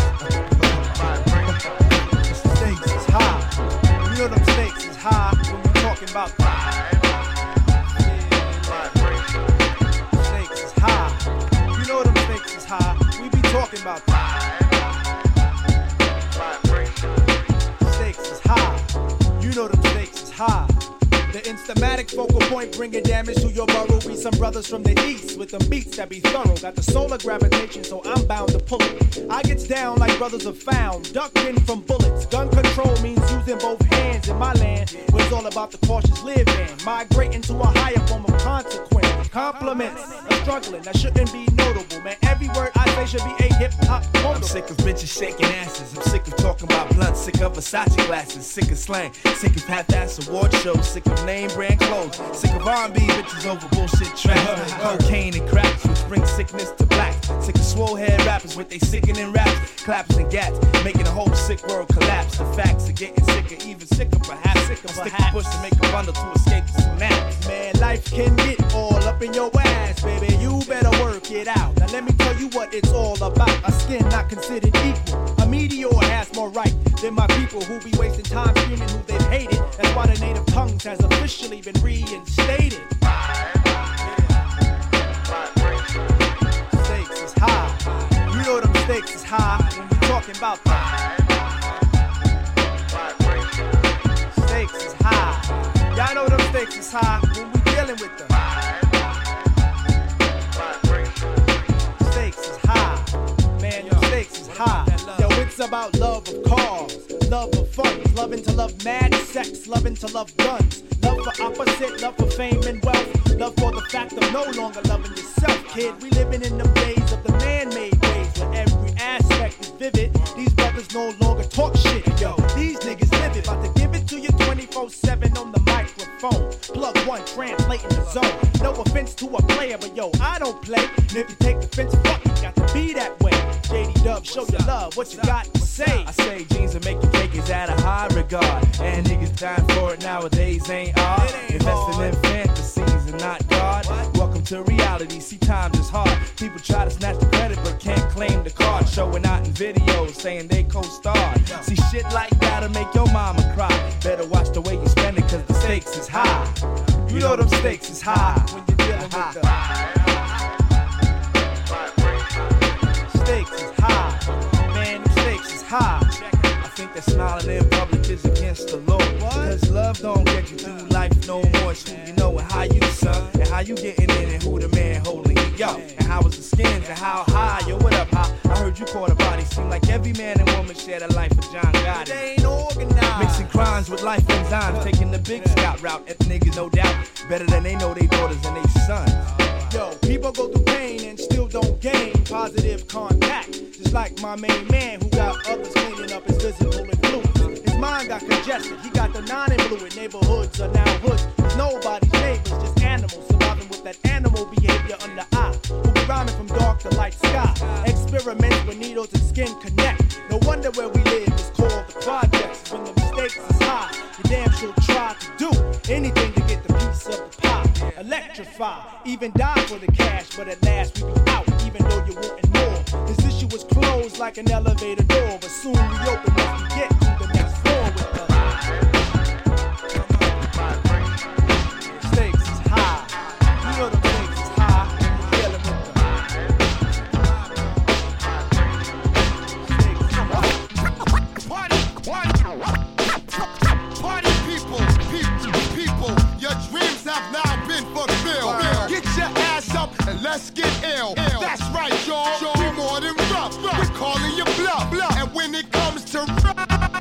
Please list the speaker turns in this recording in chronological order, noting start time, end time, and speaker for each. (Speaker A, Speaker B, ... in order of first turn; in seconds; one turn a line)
Speaker A: 2.3-6.9
Speaker A: 8.1-8.9
Speaker A: 10.1-14.4
Speaker A: 17.8-44.5
Speaker B: 39.3-40.2
Speaker B: 44.2-67.4
Speaker A: 52.1-52.4
Speaker A: 54.3-55.1
Speaker A: 64.5-65.7
Speaker A: 67.3-82.9
Speaker A: 86.7-91.0
Speaker B: 89.6-90.0
Speaker A: 94.3-98.3
Speaker A: 102.0-136.1
Speaker B: 103.7-105.4
Speaker B: 115.6-116.0
Speaker B: 122.0-123.5
Speaker B: 127.8-128.4
Speaker B: 134.2-156.5
Speaker A: 141.1-142.2
Speaker A: 143.8-144.1
Speaker A: 151.3-151.7
Speaker A: 155.5-159.5
Speaker B: 157.1-159.4
Speaker A: 163.1-166.2
Speaker B: 166.2-182.3
Speaker A: 169.1-169.6
Speaker A: 170.6-172.4
Speaker A: 173.0-173.3
Speaker A: 175.6-176.0
Speaker A: 176.8-177.8
Speaker A: 181.8-183.8
Speaker B: 183.1-189.7
Speaker A: 184.6-185.6
Speaker A: 189.6-228.6
Speaker B: 207.3-207.9
Speaker B: 217.8-218.0
Speaker A: 232.0-236.1
Speaker A: 239.6-240.4
Speaker C: 241.4-242.6
Speaker C: 243.9-256.8